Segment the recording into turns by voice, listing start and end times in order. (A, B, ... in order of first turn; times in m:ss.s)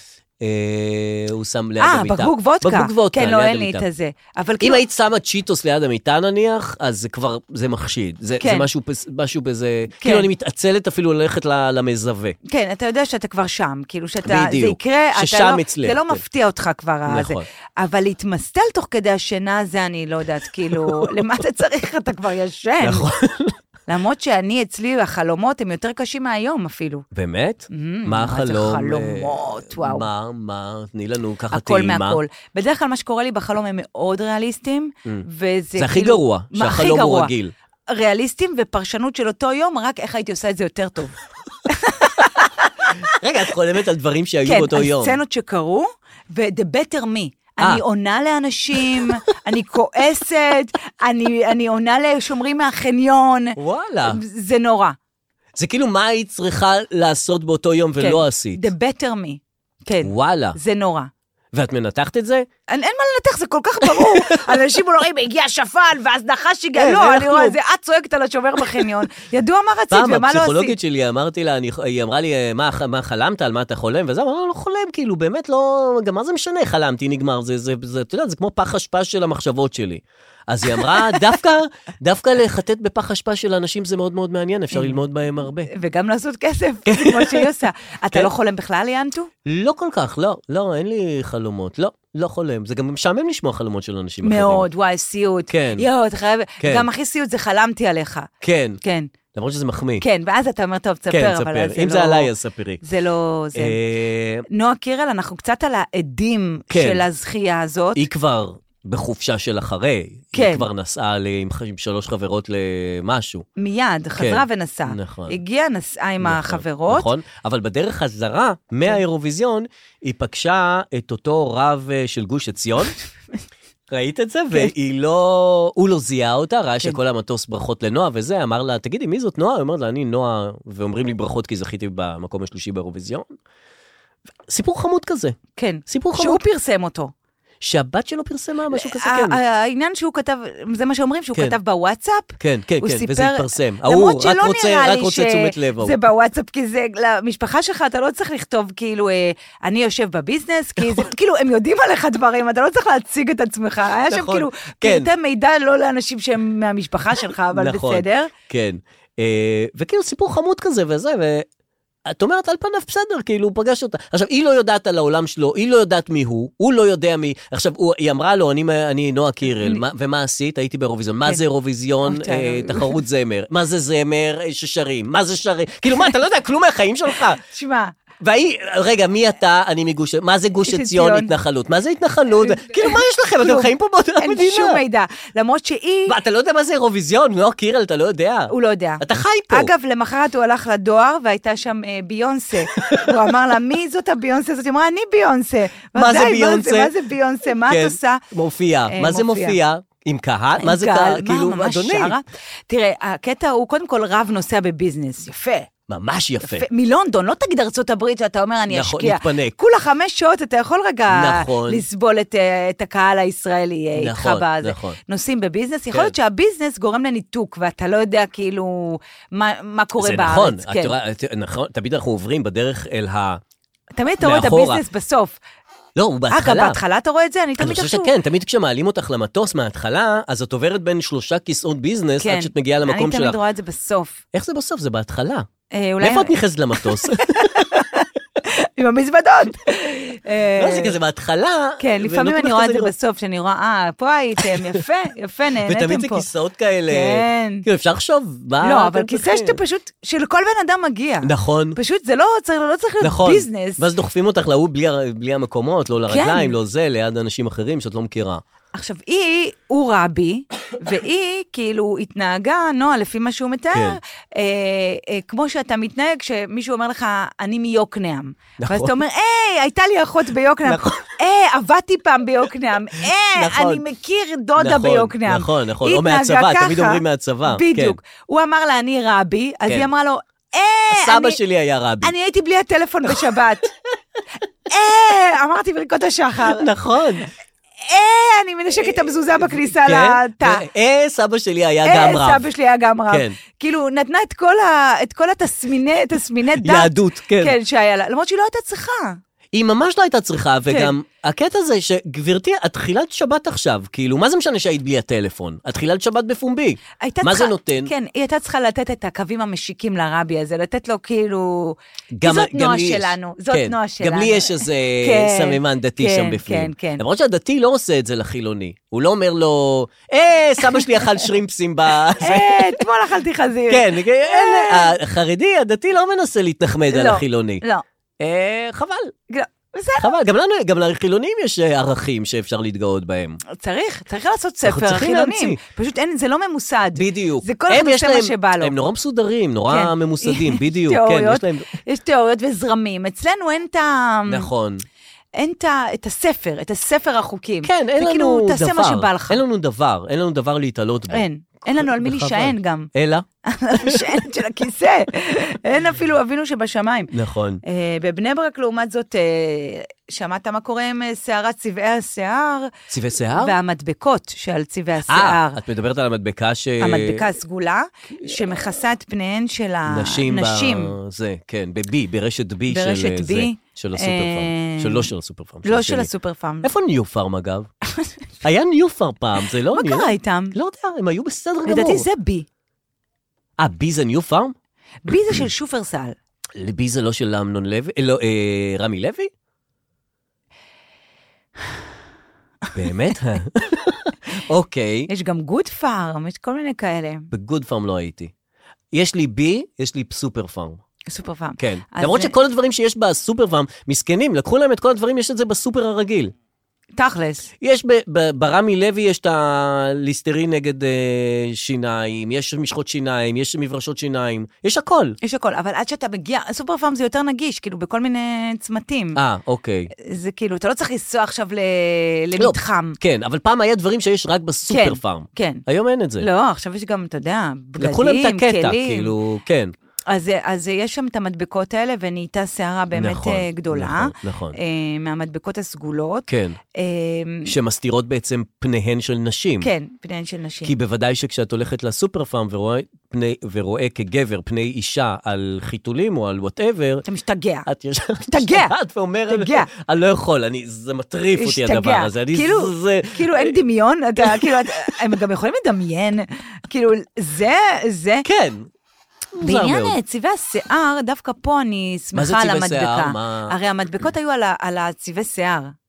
0:00.4-0:03.8 A
0:01.8-0:04.8 B
0:04.6-0:12.4 A
0:08.4-0:08.7 B
0:10.0-0:10.3 B
0:12.5-0:23.1 B
0:14.2-0:16.2 A
0:17.1-0:17.4 A
0:22.8-0:23.6 A
0:23.9-0:27.0 B
0:27.1-0:32.2 A
0:27.7-0:30.1 B
0:31.5-0:37.3 B
0:35.8-0:37.5 A
0:37.9-0:41.1 B
0:41.7-0:42.9 B
0:43.2-0:45.2 A
0:44.4-0:53.6 B
0:53.6-0:54.2 A
0:54.1-0:55.0 B
0:55.6-0:58.6 A
0:58.0-1:01.1 B
1:00.0-1:00.6 A
1:01.5-1:02.5 A
1:02.7-1:10.8 B
1:03.9-1:04.4 A
1:06.8-1:07.6 A
1:09.9-1:25.7 A
1:20.9-1:21.2 B
1:24.7-1:25.0 B
1:25.7-1:29.3 B
1:26.9-1:27.5 A
1:29.5-1:34.7 A
1:34.2-1:38.3 B
1:35.5-1:35.9 A
1:36.6-1:36.9 A
1:38.4-1:38.8 A
1:38.8-1:39.1 B
1:39.3-1:40.0 A
1:40.0-1:42.3 B
1:41.1-1:42.8 A
1:42.8-1:43.8 B
1:43.6-1:44.5 A
1:44.5-1:48.0 B
1:46.7-1:47.0 A
1:48.0-1:53.5 A
1:50.3-1:50.7 B
1:53.6-1:57.1 B
1:54.2-1:55.4 A
1:56.2-2:03.0 A
2:03.9-2:13.3 A
2:14.5-2:15.4 A
2:15.6-2:17.1 B
2:15.9-2:16.4 A
2:17.6-2:19.4 A
2:18.7-2:38.3 B
2:22.4-2:26.0 A
2:34.1-2:35.1 A
2:37.5-2:41.5 A
2:42.1-2:57.4 A
2:52.1-2:53.0 B
2:57.5-2:58.0 B
2:58.2-3:04.8 A
3:00.6-3:01.3 B
3:02.4-3:06.2 B
3:06.1-3:09.7 A
3:08.5-3:18.2 B
3:12.8-3:13.1 A
3:16.0-3:16.9 A
3:17.7-3:22.2 A
3:18.9-3:19.6 B
3:20.6-3:25.7 B
3:25.9-3:26.7 A
3:26.4-3:41.0 B
3:28.7-3:29.6 A
3:31.1-3:31.8 A
3:34.0-3:35.0 A
3:40.0-3:43.4 A
3:44.0-3:45.4 B
3:44.2-3:44.8 A
3:46.0-3:46.8 A
3:46.3-3:48.1 B
3:47.6-3:53.4 A
3:52.2-3:54.2 B
3:54.3-3:55.5 A
3:55.7-4:00.9 B
3:56.0-3:57.7 A
4:00.6-4:02.9 A
4:01.8-4:06.2 B
4:04.4-4:04.8 A
4:05.7-4:09.6 A
4:06.9-4:07.7 B
4:08.6-4:13.9 B
4:11.2-4:11.8 A
4:13.0-4:18.4 A
4:16.1-4:16.6 B
4:18.7-4:41.4 B
4:28.6-4:29.0 A
4:30.7-4:31.1 A
4:33.4-4:33.8 A
4:34.6-4:38.0 A
4:40.9-4:42.1 A
4:42.0-4:43.7 B
4:43.1-4:43.4 A
4:44.7-4:46.7 B
4:46.4-4:47.3 A
4:47.9-4:50.6 B
4:48.8-4:52.4 A
4:51.8-4:59.2 B
4:53.1-4:53.4 A
4:56.6-4:57.6 A
4:59.5-5:07.9 A
5:00.7-5:00.9 B
5:07.0-5:17.0 B
5:12.2-5:22.8 A
5:22.2-5:24.9 B
5:23.7-5:27.6 A
5:26.9-5:27.8 B
5:28.2-5:29.1 A
5:29.3-5:30.2 B
5:30.0-5:33.4 A
5:33.5-5:38.8 B
5:34.6-5:35.6 A
5:37.0-5:41.7 A
5:39.7-5:44.5 B
5:44.3-5:44.8 A
5:45.4-5:49.4 B
5:47.6-5:51.2 A
5:51.1-5:52.9 B
5:51.8-5:53.3 A
5:53.5-5:57.1 B
5:53.8-5:54.1 A
5:57.1-5:57.6 A
5:57.6-6:02.7 B
6:02.9-6:03.6 A
6:03.4-6:05.6 B
6:05.1-6:07.2 A
6:06.8-6:10.9 B
6:09.9-6:16.1 A
6:12.7-6:15.1 B
6:15.6-6:16.7 B
6:16.6-6:17.7 A
6:18.4-6:22.1 A
6:19.7-6:20.6 B
6:21.7-6:22.5 B
6:23.6-6:24.5 A
6:25.0-6:26.2 B
6:26.6-6:29.3 A
6:32.7-6:35.1 A
6:35.1-6:37.3 B
6:37.3-6:38.3 A
6:38.9-6:40.8 A
6:41.1-6:42.3 B
6:41.6-6:46.3 A
6:47.0-6:47.5 B
6:47.6-6:55.2 A
6:55.2-6:59.2 B
6:59.2-6:59.9 A
7:00.0-7:03.0 B
7:02.4-7:06.3 A
7:04.7-7:05.6 B
7:06.2-7:09.1 B
7:07.8-7:09.7 A
7:10.1-7:17.5 B
7:13.0-7:14.6 A
7:16.3-7:16.6 A
7:17.5-7:19.7 A
7:19.6-7:20.7 B
7:20.6-7:27.0 A
7:27.1-7:27.7 B
7:27.7-7:33.6 A
7:28.3-7:28.7 B
7:29.3-7:29.7 B
7:31.4-7:38.3 B
7:34.2-7:34.5 A
7:38.2-7:38.7 A
7:39.4-7:40.0 A
7:39.4-7:45.7 B
7:42.2-7:43.5 A